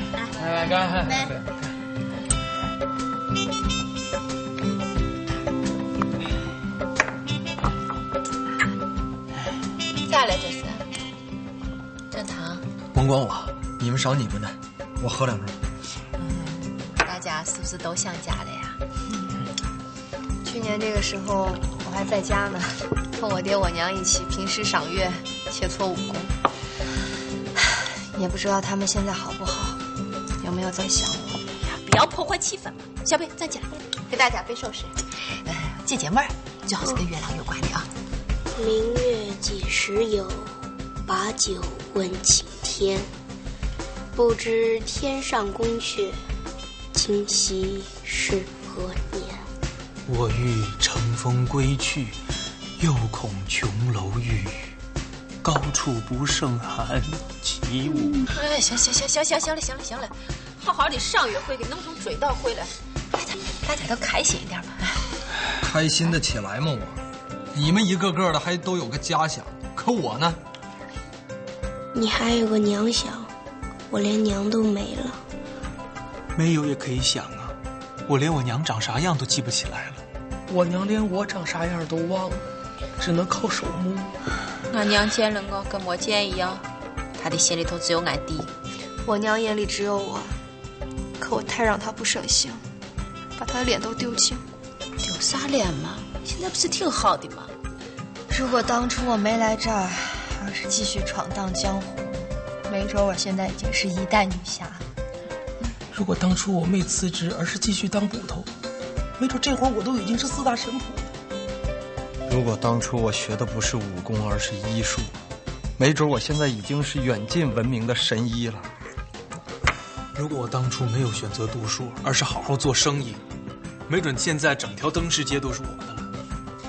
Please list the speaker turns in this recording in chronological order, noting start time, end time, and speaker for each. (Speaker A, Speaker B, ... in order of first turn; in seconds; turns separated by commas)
Speaker A: 1.0-1.3, Speaker B: 10.0-10.8, Speaker B: 12.1-12.6, Speaker C: 12.9-15.5, Speaker B: 17.0-18.8, Speaker D: 20.4-26.3, Speaker D: 28.1-29.8, Speaker D: 30.4-31.4, Speaker B: 31.6-33.7, Speaker D: 34.1-34.9, Speaker B: 35.5-37.9, Speaker A: 38.5-40.5, Speaker A: 41.0-43.1, Speaker A: 44.1-46.2, Speaker A: 46.9-49.4, Speaker E: 50.0-52.2, Speaker E: 52.8-54.7, Speaker E: 55.4-58.3, Speaker B: 58.3-62.7, Speaker B: 63.6-65.0, Speaker C: 65.6-67.0, Speaker C: 67.5-70.4, Speaker A: 71.9-73.3, Speaker A: 73.9-75.2, Speaker E: 76.3-80.0, Speaker F: 80.5-82.4, Speaker F: 83.0-84.1, Speaker B: 84.7-86.6, Speaker B: 87.2-88.5, Speaker D: 89.0-90.3, Speaker D: 91.2-92.6, Speaker D: 93.4-94.4, Speaker B: 95.0-97.5, Speaker D: 98.3-104.8, Speaker F: 105.9-108.5, Speaker F: 109.2-111.1, Speaker C: 112.3-115.1, Speaker C: 115.8-118.7, Speaker E: 120.1-123.2, Speaker E: 123.8-126.1